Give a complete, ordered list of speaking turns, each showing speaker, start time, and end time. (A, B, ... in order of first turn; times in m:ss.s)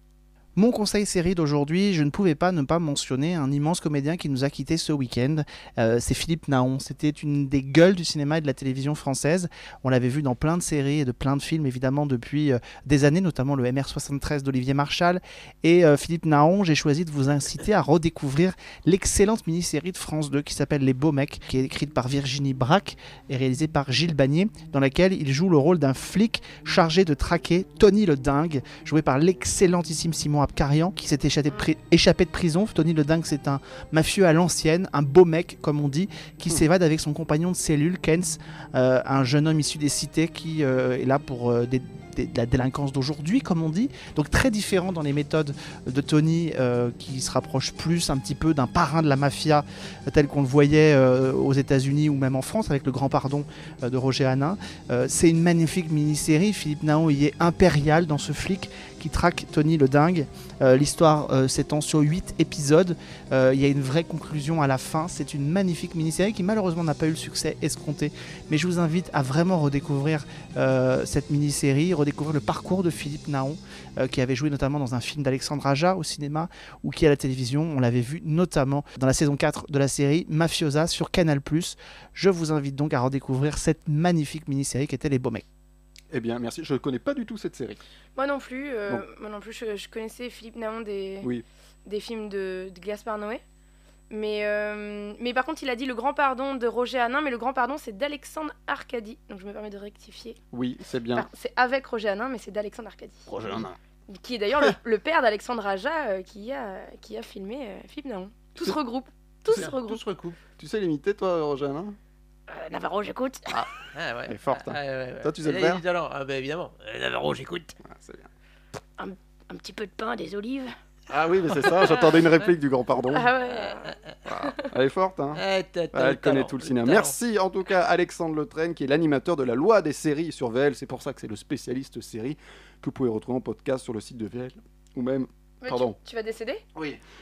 0:00.6-1:25.4 A
1:26.1-1:27.8 B
1:28.2-1:31.3 C
1:31.8-1:33.4 C
1:34.1-1:40.4 C
1:40.5-1:41.3 B
1:41.2-1:43.2 C
1:43.3-1:43.8 B
1:44.1-1:50.0 C
1:49.5-1:50.4 D
1:50.6-1:52.0 B
1:52.5-1:53.5 C
1:53.9-1:57.8 D
1:54.3-1:55.8 B
1:57.9-1:58.3 B
1:59.0-2:00.7 C
2:01.1-2:03.3 B
2:01.6-2:02.5 D
2:03.1-2:03.9 C
2:03.4-2:04.1 D
2:04.3-2:05.4 B
2:05.4-2:07.2 D
2:05.9-2:16.0 B
2:15.6-2:16.6 C